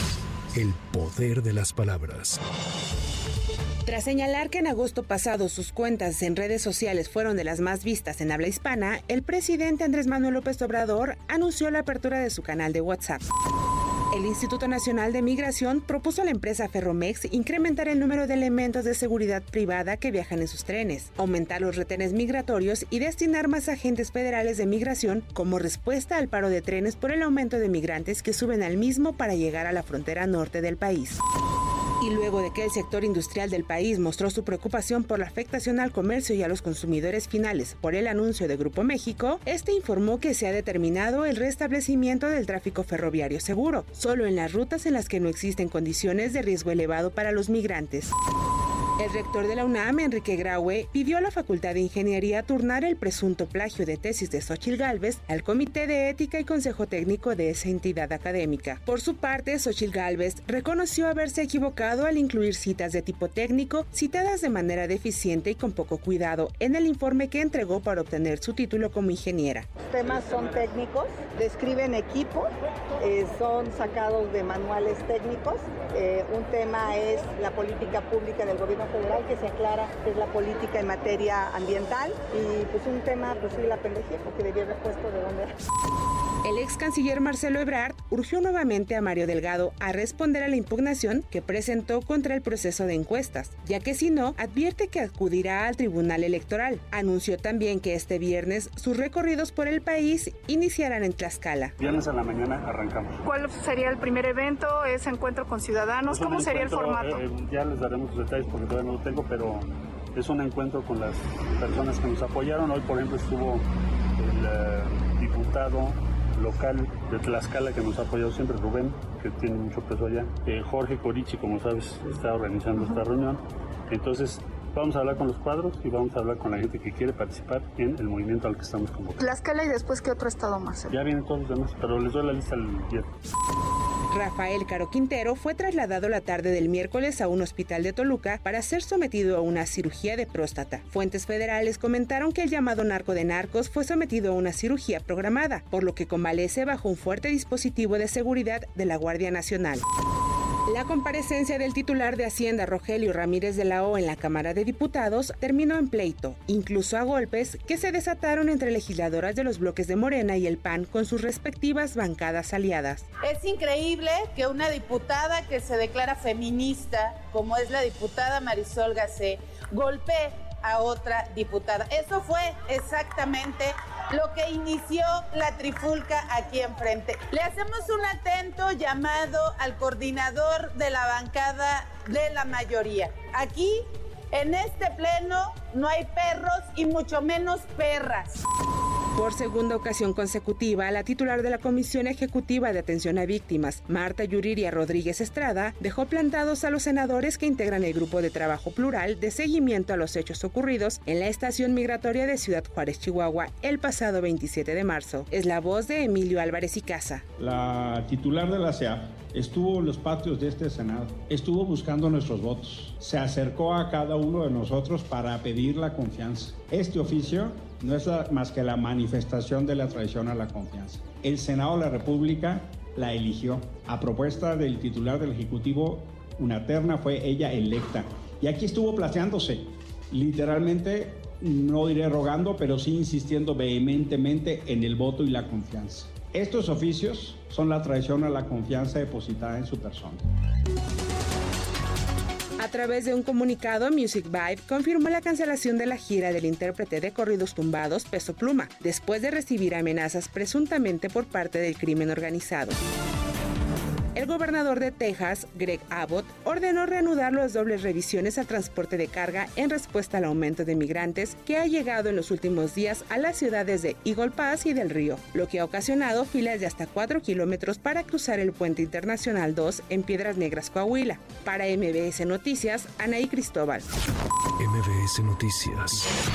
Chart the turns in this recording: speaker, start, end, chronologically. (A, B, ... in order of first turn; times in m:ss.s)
0:00.5-0:02.4 A
0:03.9-0:13.2 B
0:14.1-0:31.2 B
0:32.0-0:48.1 B
0:49.0-1:09.7 B
1:09.9-1:25.6 C
1:26.4-1:41.8 B
1:41.8-1:43.2 D
1:43.2-1:47.2 E
1:46.1-1:53.6 D
1:54.2-2:09.3 D
2:09.2-2:11.0 E
2:10.9-2:13.1 D
2:14.1-2:29.8 B
2:30.7-2:43.1 B
2:43.2-3:03.8 F
3:04.3-3:08.4 F
3:09.2-3:27.2 B
3:27.4-4:00.2 G
4:02.6-4:12.8 B
4:14.1-4:33.9 B
4:34.6-4:36.1 A